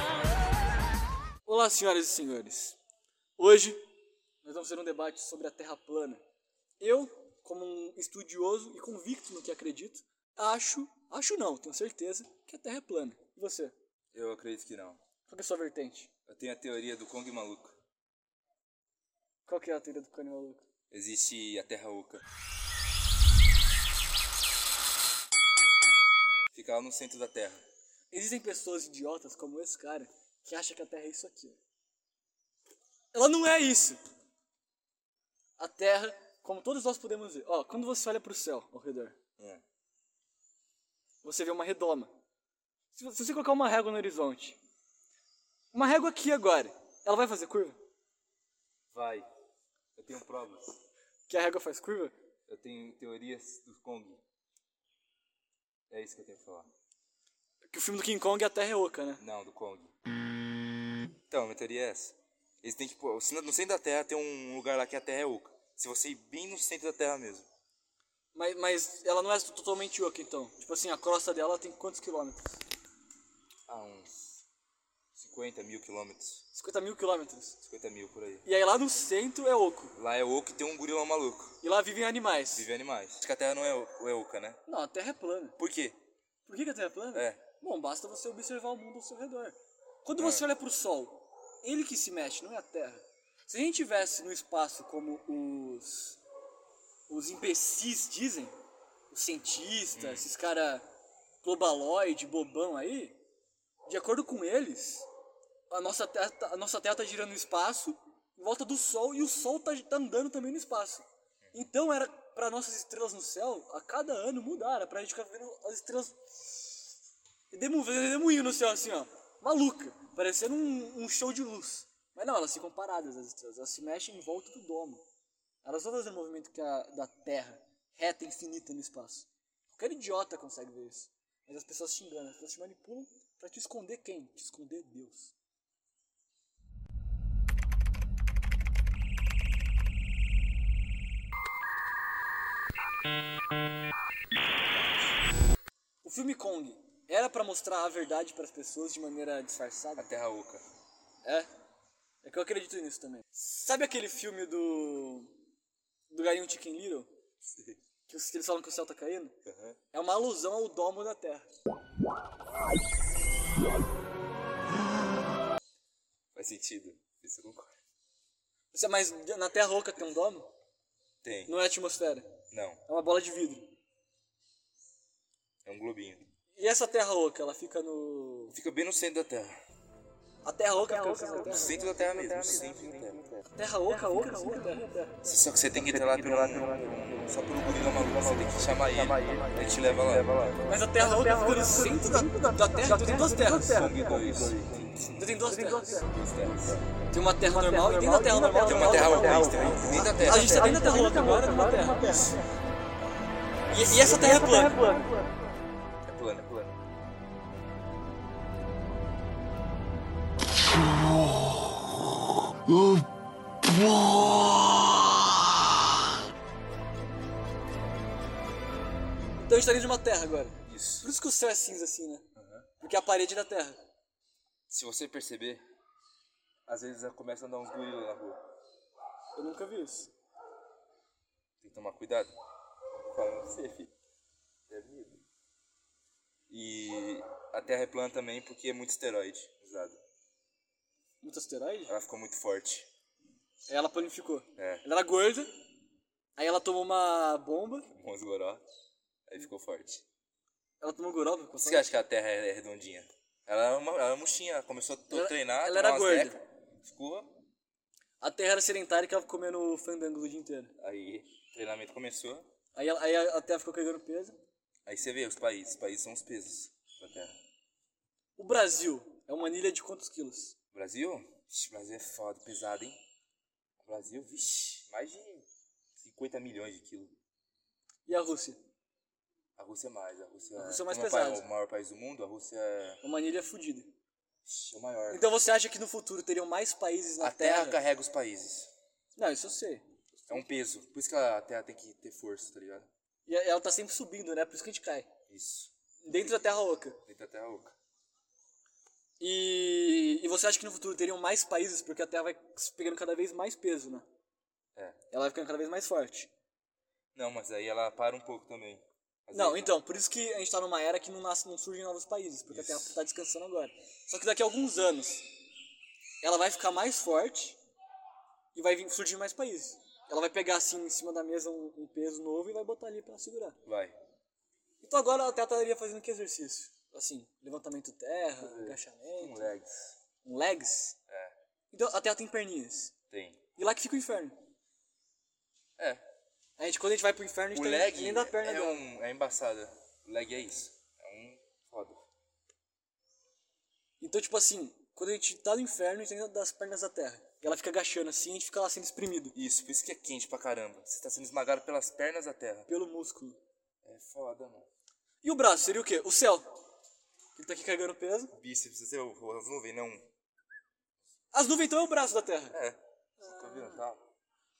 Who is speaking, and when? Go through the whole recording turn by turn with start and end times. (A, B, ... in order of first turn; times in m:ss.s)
0:01.4-0:02.8 A
0:03.4-0:03.8 A
0:04.4-0:06.2 A
0:06.8-0:13.7 A
0:14.1-0:15.0 B
0:15.3-0:16.1 A
0:16.3-0:17.8 B
0:19.4-0:20.6 A
0:20.9-0:22.2 B
0:26.5-0:27.6 B
0:28.1-0:31.6 A
0:33.1-0:34.0 A
0:35.6-0:39.2 A
0:39.4-0:39.6 B
0:41.2-0:42.1 A
0:42.9-0:44.6 A
0:45.7-0:47.8 A
0:48.9-0:49.3 B
0:50.0-0:50.8 B
0:51.3-0:52.1 A
0:52.5-0:54.2 B
0:55.9-0:56.7 B
0:57.7-0:59.2 A
0:59.2-0:59.9 B
1:01.3-1:07.5 B
1:08.3-1:12.6 A
1:13.7-1:14.1 B
1:15.1-1:16.4 B
1:16.5-1:17.6 A
1:17.6-1:18.4 B
1:18.4-1:19.9 A
1:20.0-1:21.5 B
1:21.6-1:22.7 A
1:22.5-1:24.6 B
1:24.7-1:25.6 A
1:25.6-1:26.0 B
1:26.4-1:36.2 A
1:27.1-1:27.4 B
1:30.2-1:30.4 B
1:37.1-1:38.5 A
1:39.1-1:40.8 A
1:40.0-1:40.2 B
1:41.4-1:43.2 A
1:43.8-1:45.0 A
1:45.7-1:56.9 A
1:57.5-2:05.0 A
2:05.6-2:15.3 A
2:26.0-2:30.1 A
2:30.0-2:30.6 B
2:32.2-2:35.3 A
2:36.1-2:37.1 A
2:37.4-2:37.8 B
2:38.1-2:39.3 A
2:39.4-2:39.8 B
2:39.9-2:41.5 A
2:46.3-2:47.7 B
2:48.7-2:50.5 A
2:51.2-2:51.5 B
2:51.5-2:52.3 A
2:52.5-2:52.8 B
2:52.8-2:53.7 A
2:55.6-2:56.3 B
2:56.6-2:58.5 A
2:58.5-2:59.5 B
3:00.4-3:01.7 A
3:01.5-3:03.3 B
3:03.5-3:04.9 A
3:05.2-3:10.6 B
3:10.6-3:13.8 A
3:13.6-3:15.2 B
3:15.2-3:16.0 A
3:16.0-3:16.8 B
3:17.1-3:19.7 A
3:18.6-3:20.6 B
3:20.2-3:22.2 A
3:23.7-3:24.8 A
3:26.0-3:26.7 B
3:39.4-3:42.2 A
3:40.7-3:41.1 B
3:42.4-3:42.7 B
3:42.8-3:43.8 A
3:44.7-3:45.6 B
3:46.7-3:48.4 B
3:49.4-3:50.1 A
3:51.6-3:52.3 B
3:53.1-3:53.9 B
3:54.7-3:55.2 B
3:56.5-4:00.0 B
4:01.2-4:01.9 A
4:01.9-4:02.9 B
4:03.7-4:05.5 A
4:04.6-4:04.8 B
4:06.4-4:07.9 A
4:07.9-4:08.6 B
4:09.3-4:10.0 B
4:10.8-4:11.9 A
4:11.6-4:17.3 B
4:15.1-4:16.4 A
4:18.2-4:20.7 A
4:20.8-4:22.4 B
4:22.7-4:24.4 A
4:24.8-4:27.3 B
4:28.4-4:30.5 A
4:30.7-4:33.0 B
4:33.8-4:35.4 B
4:36.0-4:37.1 B
4:38.0-4:38.6 A
4:39.6-4:43.0 B
4:40.6-4:41.4 A
4:43.0-4:43.9 A
4:44.4-4:45.2 B
4:45.1-4:47.8 A
4:47.2-4:48.7 B
4:49.2-4:50.4 A
4:50.3-4:52.9 B
4:53.3-4:55.1 A
4:55.3-4:56.4 B
4:56.0-4:57.0 A
4:57.0-4:57.7 B
4:59.2-5:04.0 A
5:05.1-5:06.3 A
5:07.1-5:09.7 B
5:09.3-5:15.2 A
5:12.5-5:13.0 B
5:16.2-5:17.6 A
5:18.5-5:23.6 A
5:23.6-5:24.0 B
5:24.8-5:29.5 A
5:28.4-5:30.0 B
5:30.2-5:31.0 A
5:31.7-5:32.9 A
5:33.1-5:33.4 B
5:33.6-5:34.4 A
5:35.8-5:36.0 B
5:36.6-5:38.8 A
5:37.5-5:42.0 B
5:44.0-5:49.3 A
5:49.3-5:52.7 B
5:52.7-5:53.4 A
5:53.8-5:54.7 B
5:55.2-5:56.5 A
5:57.3-5:58.3 A
5:58.3-6:00.1 B
6:01.3-6:02.6 A
6:02.5-6:04.0 B
6:03.2-6:03.8 A